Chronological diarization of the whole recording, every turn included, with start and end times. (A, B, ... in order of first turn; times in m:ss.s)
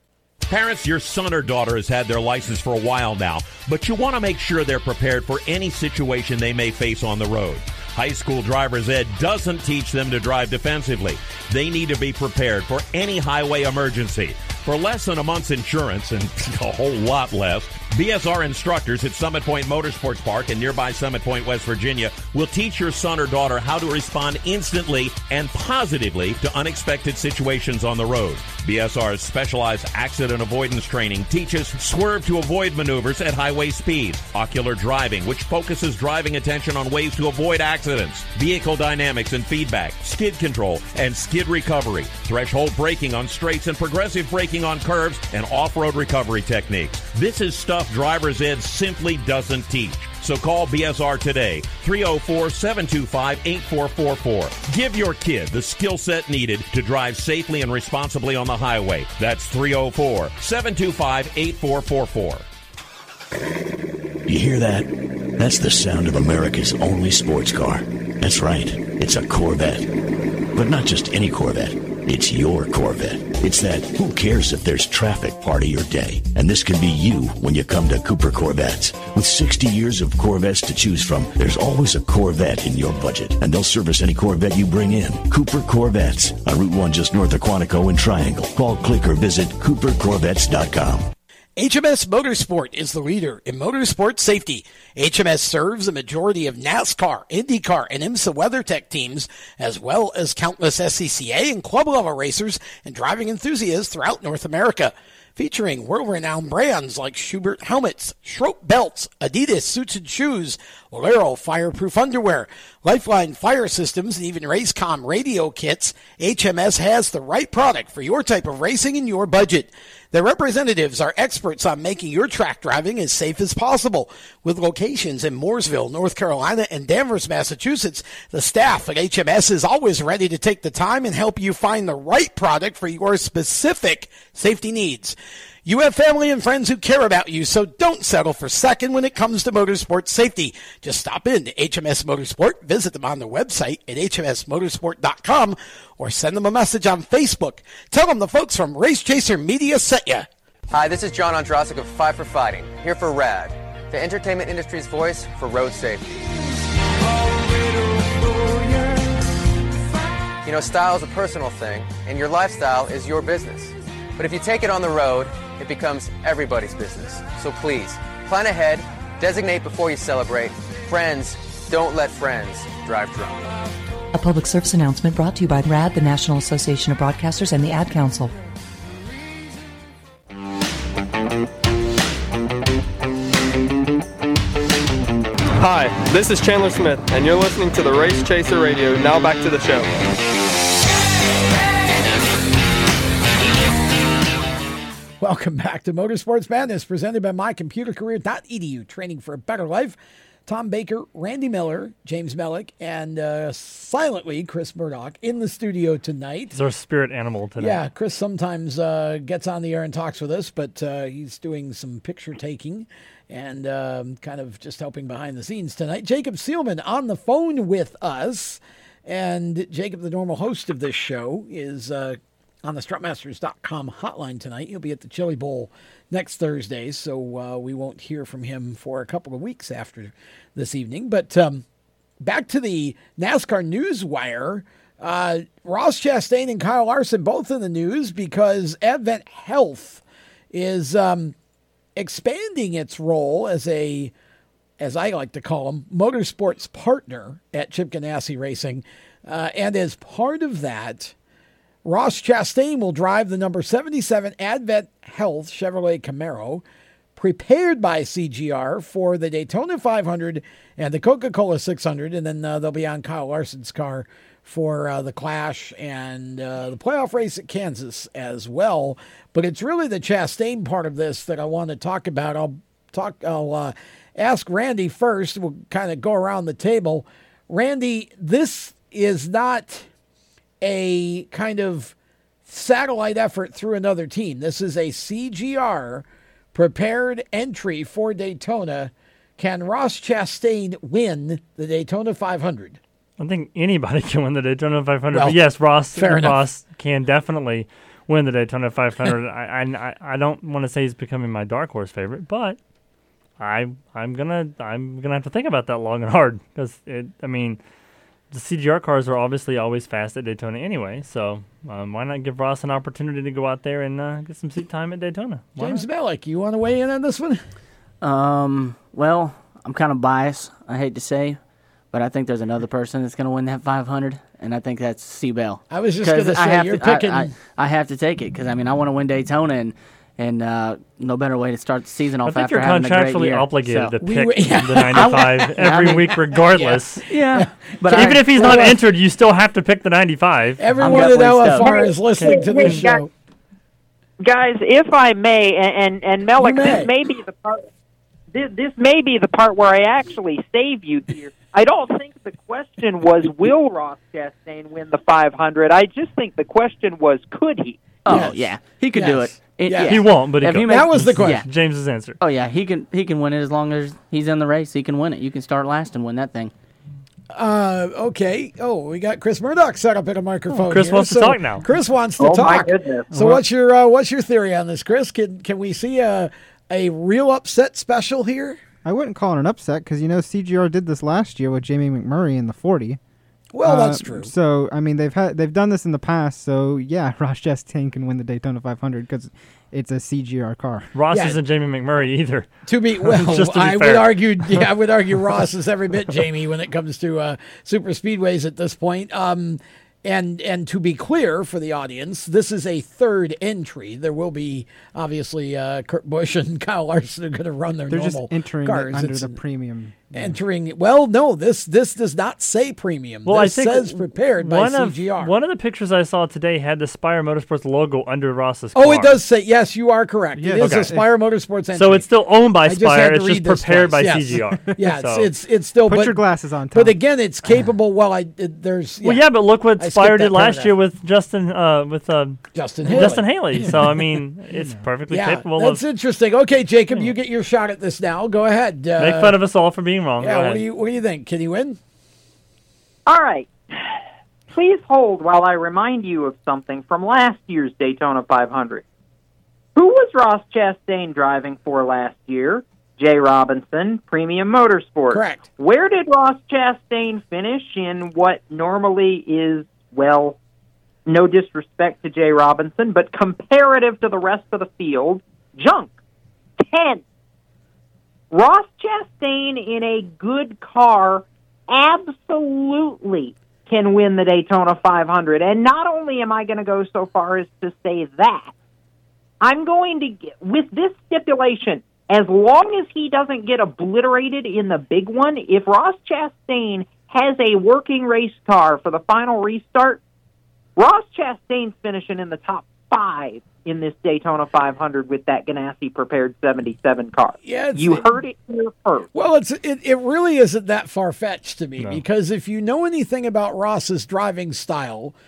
0:00.5-1:02.4 A
1:04.3-1:09.9 B
1:10.6-1:31.1 B
1:31.6-2:15.2 C
2:15.7-2:30.3 C
2:30.7-2:36.2 D
2:40.4-2:53.5 D
2:54.1-2:58.3 E
3:05.6-3:09.9 F
3:15.2-3:26.6 C
3:26.5-3:27.8 G
3:27.6-3:51.6 C
3:52.2-4:01.4 C
4:02.0-4:04.1 C
4:04.8-4:11.2 C
4:11.8-4:16.6 C
4:17.2-4:39.9 C
4:40.6-4:41.9 C
4:42.5-4:52.8 C
4:53.2-5:02.6 G
4:55.1-4:55.4 C
4:55.9-4:56.4 C
5:03.4-5:07.6 G
5:08.3-5:15.8 G
5:15.6-5:17.4 C
5:18.0-5:21.4 H
5:21.9-5:34.0 H
5:25.7-5:27.3 C
5:32.2-5:37.0 G
5:34.0-5:38.8 C
5:35.0-5:36.0 H
5:37.1-5:38.7 H
5:37.9-5:41.2 G
5:40.6-5:43.1 C
5:40.8-5:41.8 H
5:41.6-5:43.0 I
5:42.2-5:42.8 G
5:44.2-5:47.7 I
5:46.4-5:46.9 C
5:48.3-5:57.8 I
5:58.0-6:01.5 H
5:58.1-6:00.0 C
5:59.8-6:02.2 G
6:00.5-6:01.4 C
6:02.2-6:06.5 H
6:07.3-6:18.6 C
6:10.5-6:11.6 G
6:12.2-6:13.1 I
6:18.8-6:23.0 J
6:23.5-6:24.3 C
6:23.6-6:30.9 J
6:30.9-6:34.6 G
6:31.1-6:31.4 C
6:32.7-6:49.4 C
6:47.9-6:50.4 J
6:50.1-6:55.3 C
6:53.2-6:59.2 G
6:58.7-7:02.1 C
7:00.4-7:01.1 J
7:00.5-7:01.0 G
7:01.7-7:05.3 G
7:02.6-7:09.2 C
7:04.3-7:04.8 J
7:05.8-7:07.7 J
7:09.0-7:15.8 G
7:09.8-7:10.7 C
7:12.6-7:13.9 C
7:13.5-7:14.9 J
7:15.1-7:19.4 C
7:19.0-7:20.6 G
7:20.2-7:21.8 C
7:23.1-7:24.0 I
7:24.5-7:28.8 I
7:29.8-7:40.4 I
7:35.1-7:35.4 C
7:41.1-7:46.0 I
7:46.6-7:47.0 I
7:48.3-7:58.5 I
7:59.4-8:10.0 I
8:10.8-8:19.1 I
8:17.4-8:18.2 C
8:19.1-8:25.1 C